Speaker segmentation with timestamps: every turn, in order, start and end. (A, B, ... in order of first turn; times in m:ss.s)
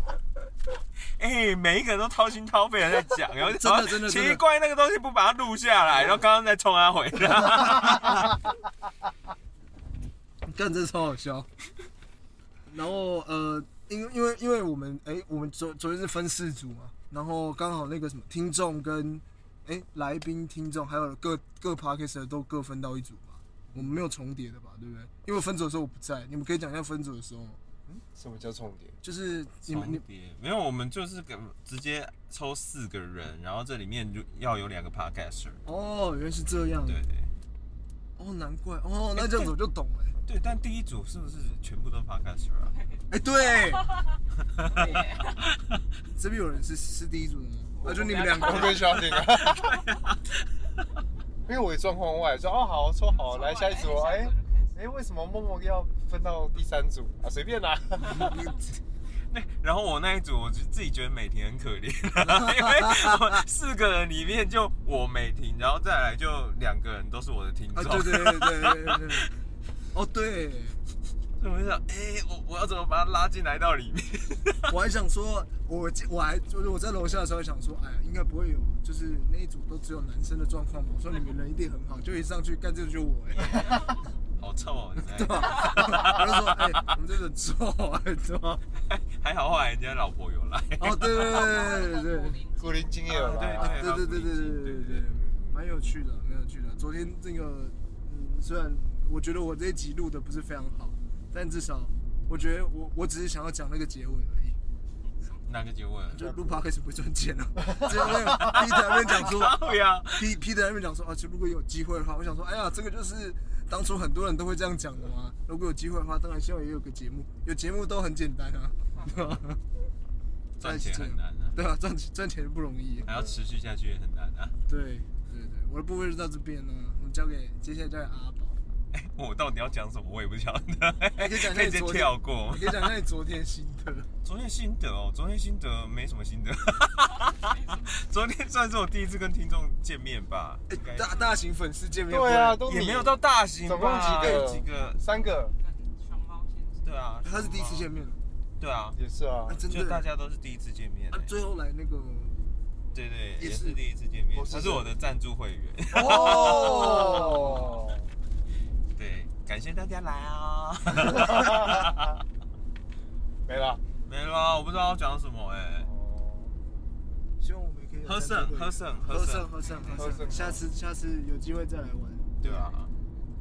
0:01.2-0:08.3 A
0:03.4-0:04.4 B
0:07.8-0:08.1 B
0:10.5-0:11.5 B
0:12.7-0:27.6 B
0:23.7-0:24.0 C
0:27.9-0:29.0 C
0:29.0-0:30.0 B
0:29.7-0:35.6 A
0:35.7-0:37.0 B
0:36.8-0:37.3 A
0:38.2-0:40.2 B
0:39.2-0:39.6 A
0:40.3-0:42.7 A
0:42.6-0:45.5 D
0:43.1-0:43.9 B
0:44.6-0:45.4 A
0:44.8-0:45.0 B
0:46.2-0:48.8 B
0:47.8-0:49.7 D
0:48.1-0:49.8 C
0:49.1-0:50.3 A
0:51.5-0:58.4 C
0:53.1-0:54.8 D
0:58.1-0:58.6 B
0:59.3-1:09.2 A
1:02.2-1:03.2 B
1:07.8-1:09.3 B
1:09.9-1:10.8 B
1:11.4-1:14.7 A
1:14.7-1:23.9 B
1:24.4-1:26.8 A
1:25.0-1:28.6 B
1:28.9-1:31.5 A
1:30.8-1:32.4 B
1:31.1-1:32.8 D
1:32.6-1:33.9 C
1:33.1-1:35.1 A
1:33.1-1:44.6 B
1:35.0-1:35.6 C
1:45.5-1:46.3 A
1:46.1-1:59.6 B
1:46.2-1:46.6 C
1:47.6-1:48.5 C
1:47.9-1:50.3 A
1:58.9-1:59.3 D
2:00.6-2:01.6 A
2:00.6-2:03.1 B
2:03.0-2:03.4 C
2:03.1-2:04.6 A
2:04.7-2:08.6 B
2:08.9-2:12.9 A
2:11.2-2:14.1 B
2:14.2-2:21.2 A
2:17.2-2:17.9 D
2:20.7-2:22.6 B
2:21.1-2:21.4 D
2:22.1-2:25.5 C
2:22.6-2:25.0 A
2:24.0-2:24.6 B
2:24.7-2:27.0 D
2:26.8-2:27.9 A
2:27.2-2:28.2 B
2:28.6-2:29.0 A
2:29.0-2:29.6 C
2:29.5-2:30.0 B
2:29.7-2:31.3 A
2:31.1-2:32.4 B
2:32.9-2:37.4 A
2:33.4-2:33.8 B
2:34.3-2:34.9 C
2:35.9-2:37.7 B
2:36.1-2:38.0 C
2:39.0-2:42.1 A
2:41.2-2:41.9 C
2:43.5-2:43.8 C
2:44.1-2:45.9 A
2:45.8-2:46.5 C
2:47.4-2:52.8 B
2:48.0-2:50.4 A
2:49.7-2:50.0 D
2:50.0-2:50.6 C
2:52.4-2:52.9 A